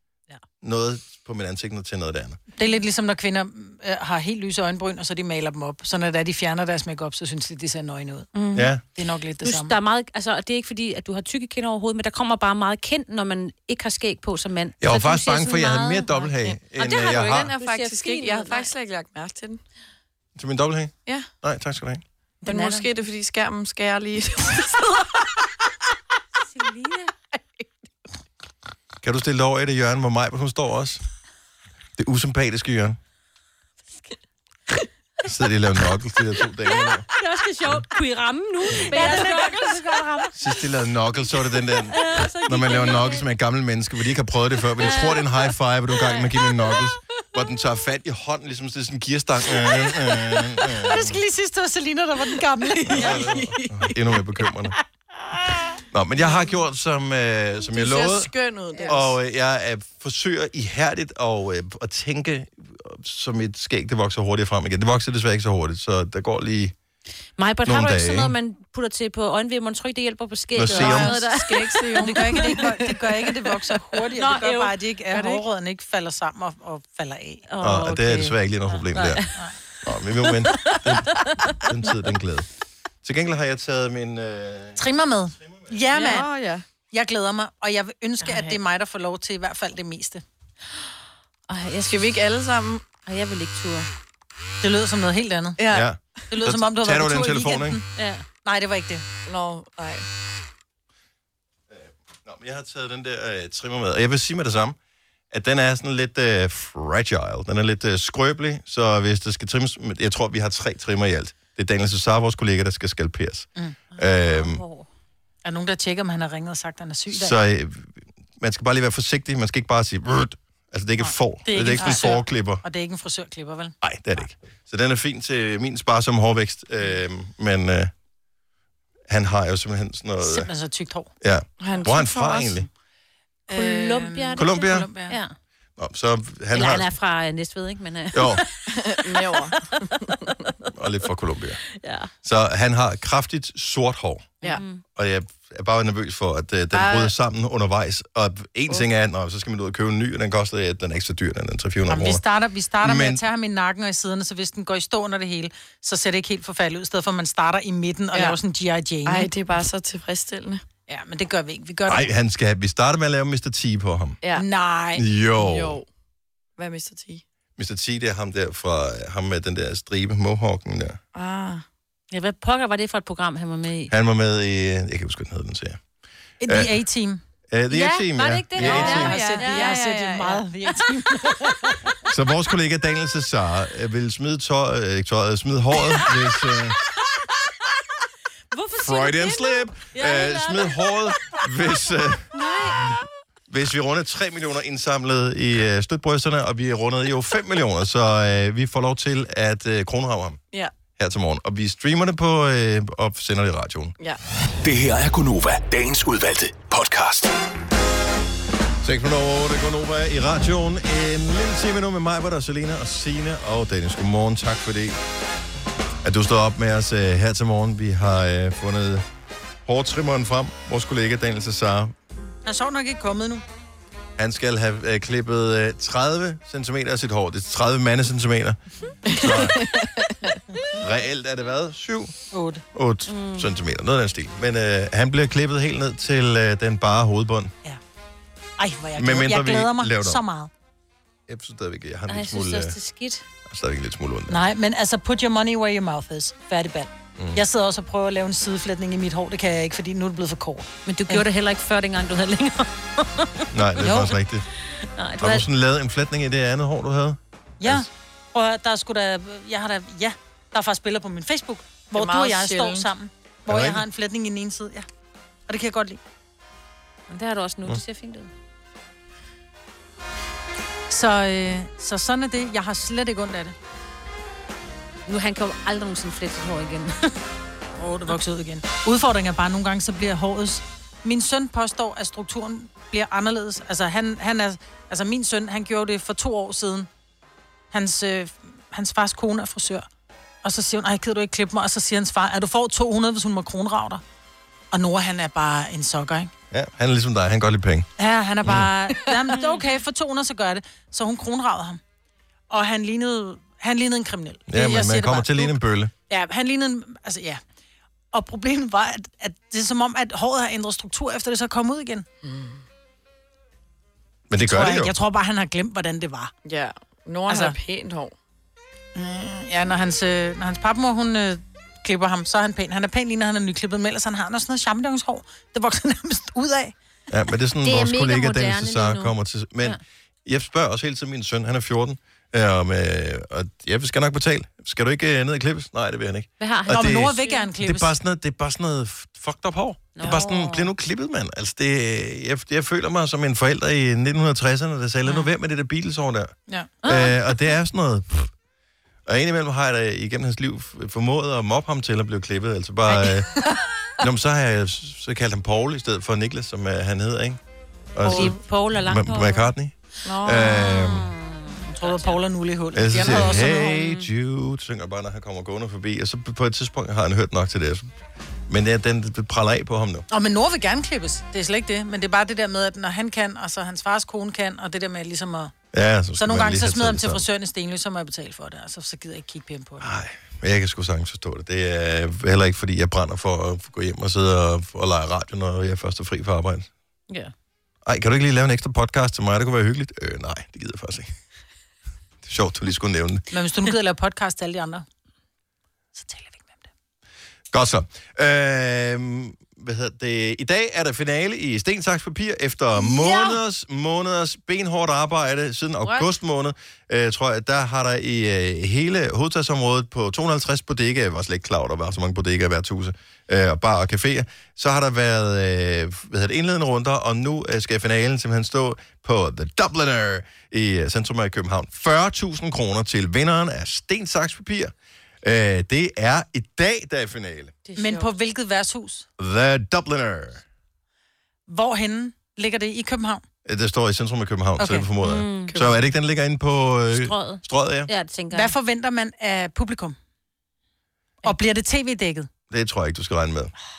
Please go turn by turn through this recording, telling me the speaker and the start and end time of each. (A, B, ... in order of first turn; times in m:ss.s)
0:00.6-0:02.4 A
0:02.6-0:08.3 B
0:08.3-0:08.7 C
0:08.5-0:08.8 A
0:08.9-0:09.7 B
0:09.4-0:18.7 C
0:14.8-0:17.4 A
0:16.4-0:19.6 D
0:20.4-0:22.0 A
0:22.4-0:25.1 D
0:22.4-0:22.8 B
0:22.4-0:22.8 C
0:26.5-0:27.1 C
0:29.0-0:31.0 A
0:32.0-0:33.0 A
0:35.2-0:37.1 A
0:36.6-0:40.3 C
0:38.9-0:40.3 B
0:40.4-0:51.2 A
0:41.7-0:43.3 C
0:44.8-0:46.8 C
0:49.8-0:53.5 B
0:52.6-0:53.9 D
0:52.9-0:54.7 A
0:55.9-0:58.3 A
0:57.7-0:59.2 D
0:58.9-1:06.7 A
1:07.4-1:12.9 C
1:07.6-1:08.3 A
1:10.5-1:11.2 A
1:10.6-1:13.0 D
1:10.8-1:11.1 B
1:12.0-1:17.5 B
1:14.1-1:14.7 C
1:15.1-1:15.4 D
1:17.5-1:19.5 C
1:17.6-1:19.3 A
1:19.8-1:22.5 A
1:20.4-1:21.9 C
1:23.0-1:24.8 A
1:24.8-1:26.3 B
1:25.9-1:26.6 D
1:26.9-1:30.2 B
1:28.2-1:28.6 C
1:31.5-1:32.1 C
1:31.8-1:32.8 D
1:33.0-1:33.9 C
1:34.6-1:35.6 B
1:35.6-1:35.9 D
1:35.7-1:37.8 A
1:36.3-1:37.8 B
1:38.0-1:38.2 C
1:38.4-1:39.0 B
1:39.2-1:40.0 D
1:41.7-1:44.8 A
1:45.3-1:54.6 A
1:53.9-1:54.9 C
1:55.4-1:57.4 B
1:57.1-2:02.6 A
2:01.0-2:04.2 B
2:03.8-2:07.9 A
2:09.1-2:10.5 A
2:10.2-2:11.1 B
2:11.2-2:12.7 A
2:11.6-2:12.6 D
2:13.5-2:15.2 B
2:13.5-2:15.3 C
2:14.4-2:14.9 A
2:15.8-2:16.9 A
2:16.5-2:18.6 C
2:18.1-2:18.4 A
2:18.7-2:20.2 D
2:20.7-2:21.6 A
2:21.7-2:22.1 C
2:22.2-2:32.2 A
2:24.4-2:24.8 C
2:26.7-2:27.1 D
2:31.9-2:39.3 B
2:32.8-2:33.2 A
2:38.1-2:38.4 D
2:39.0-2:40.6 D
2:40.9-2:42.1 B
2:41.9-2:44.2 A
2:44.2-2:44.5 D
2:44.4-2:45.0 B
2:45.0-2:45.8 A
2:45.3-2:45.9 D
2:46.6-2:47.2 D
2:47.6-2:51.0 A
2:51.1-2:51.6 D
2:52.1-2:53.9 C
2:53.9-2:55.8 A
2:56.4-2:57.2 B
2:56.5-2:56.8 A
2:57.5-2:59.3 A
2:57.7-2:59.8 C
2:58.6-3:00.4 D
2:58.6-3:02.0 B
3:02.1-3:06.8 A
3:05.9-3:06.2 C
3:08.5-3:11.4 C
3:08.8-3:12.3 A
3:12.3-3:13.0 C
3:13.5-3:20.4 A
3:21.0-3:23.9 A
3:24.6-3:27.3 E
3:28.8-3:35.0 A
3:36.0-3:39.0 A
3:39.6-3:41.9 A
3:42.4-3:43.4 B
3:44.2-3:49.6 A
3:49.1-3:50.4 D
3:50.8-3:52.1 A
3:52.3-3:52.6 B
3:52.7-3:57.5 A
3:53.1-3:53.5 C
3:58.6-4:00.5 B
3:59.0-4:00.2 A
4:01.3-4:02.8 A
4:02.1-4:03.2 C
4:03.5-4:04.4 A
4:04.3-4:11.2 B
4:10.8-4:14.1 C
4:13.5-4:14.4 A
4:14.9-4:15.4 C
4:15.2-4:17.9 A
4:17.6-4:24.9 B
4:21.9-4:22.9 D
4:23.5-4:23.8 A
4:25.5-4:26.0 B
4:27.1-4:28.3 C
4:30.9-4:33.5 B
4:35.1-4:37.2 C
4:37.8-4:46.9 B
4:47.7-4:49.9 B
4:50.4-4:54.0 B
4:54.7-4:56.3 B
4:56.5-4:57.9 A
4:58.0-5:01.8 B
4:58.4-4:58.7 A
5:02.5-5:07.4 B
5:04.5-5:05.9 A
5:08.1-5:12.0 B
5:12.2-5:12.6 D
5:14.3-5:14.9 A
5:14.4-5:16.3 B
5:16.4-5:18.1 D
5:17.3-5:17.6 B
5:18.9-5:26.7 B
5:27.1-5:46.3 A
5:27.6-5:29.8 C
5:36.4-5:37.5 C
5:36.7-5:37.9 B
5:39.9-5:40.7 C
5:46.8-5:47.4 C
5:46.8-5:48.3 A
5:49.0-5:53.4 A
5:52.9-5:53.6 D
5:54.0-5:57.4 A
5:57.9-6:01.1 A
5:58.0-5:58.4 D
5:58.0-5:59.5 C
6:00.0-6:00.8 D
6:00.8-6:02.2 C
6:01.8-6:03.7 B
6:02.7-6:07.9 A
6:03.0-6:04.1 C
6:08.5-6:10.0 A
6:10.1-6:15.5 B
6:15.7-6:17.2 A
6:16.2-6:19.9 B
6:19.8-6:26.7 A
6:27.8-6:31.1 A
6:32.2-6:33.2 A
6:33.3-6:34.8 B
6:35.9-6:36.7 B
6:37.5-7:07.5 A
6:43.0-6:43.3 B
6:45.8-6:46.1 D
7:07.6-7:08.0 C
7:07.8-7:09.1 B
7:09.2-7:10.4 A
7:11.5-7:13.2 B
7:13.4-7:17.9 A
7:14.6-7:14.9 B
7:15.0-7:15.5 C
7:15.5-7:15.8 D
7:16.9-7:18.5 C
7:18.3-7:20.0 B
7:21.2-7:22.3 B
7:22.5-7:23.5 A